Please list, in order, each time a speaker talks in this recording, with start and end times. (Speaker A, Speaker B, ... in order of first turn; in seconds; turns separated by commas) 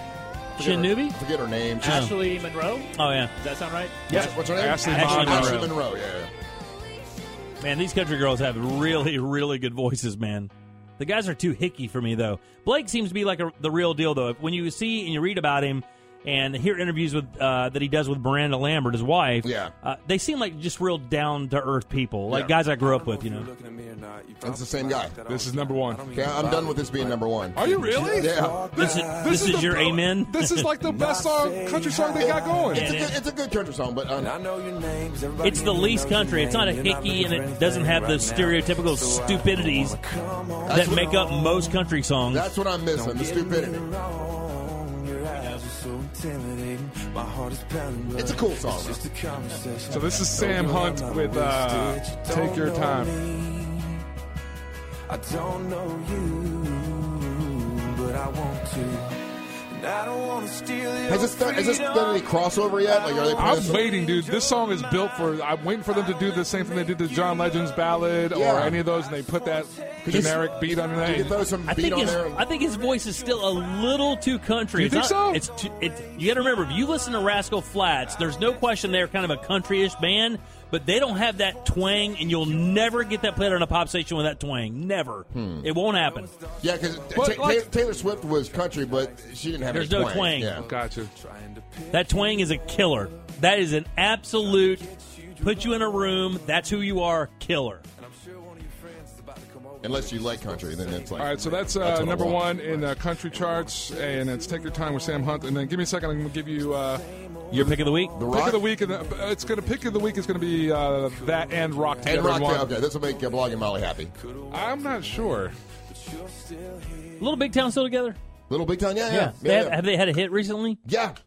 Speaker A: 0.6-2.1, Speaker B: 0.6-1.2, Speaker C: 1.8-4.0, Speaker B: 1.8-2.1, Speaker B: 2.9-3.3, Speaker A: 4.1-6.3, Speaker D: 4.1-5.8, Speaker B: 4.9-5.6, Speaker C: 5.0-5.3, Speaker B: 7.6-23.5, Speaker A: 19.4-19.7, Speaker A: 22.3-22.5, Speaker E: 22.7-27.1, Speaker A: 24.4-25.2, Speaker D: 25.3-26.1, Speaker A: 26.1-28.7, Speaker D: 27.5-32.9, Speaker E: 27.7-29.5, Speaker B: 28.8-30.6, Speaker E: 30.8-32.7, Speaker A: 32.2-34.3, Speaker B: 32.7-33.1, Speaker E: 34.2-41.7, Speaker B: 35.4-40.0, Speaker A: 40.6-41.1, Speaker B: 40.7-42.5, Speaker A: 42.3-43.9, Speaker E: 42.9-54.0, Speaker A: 48.1-49.0, Speaker D: 49.9-53.2, Speaker E: 55.1-59.2, Speaker E: 59.7-65.2, Speaker A: 61.1-63.8, Speaker D: 63.4-71.4, Speaker E: 66.0-67.5, Speaker A: 68.3-68.8, Speaker E: 69.4-69.9, Speaker A: 70.0-72.5, Speaker E: 70.5-70.8, Speaker B: 71.6-86.3, Speaker D: 74.7-75.4, Speaker A: 85.3-85.7, Speaker A: 86.6-90.7, Speaker D: 87.1-87.7, Speaker B: 89.7-90.6, Speaker D: 90.6-91.1, Speaker E: 91.2-92.7, Speaker B: 91.9-94.9, Speaker E: 94.5-96.0, Speaker B: 95.4-97.8, Speaker E: 98.1-101.8, Speaker A: 99.8-102.5, Speaker D: 101.2-112.7, Speaker E: 102.3-104.8, Speaker E: 106.8-108.1, Speaker B: 107.5-108.2, Speaker A: 108.1-108.7, Speaker E: 109.3-109.5, Speaker E: 111.2-112.0, Speaker A: 112.0-114.1, Speaker E: 114.2-115.4, Speaker D: 114.5-115.5, Speaker E: 116.0-117.5, Speaker B: 117.2-118.2, Speaker A: 118.5-119.8, Speaker B: 119.1-120.8, Speaker A: 120.8-121.2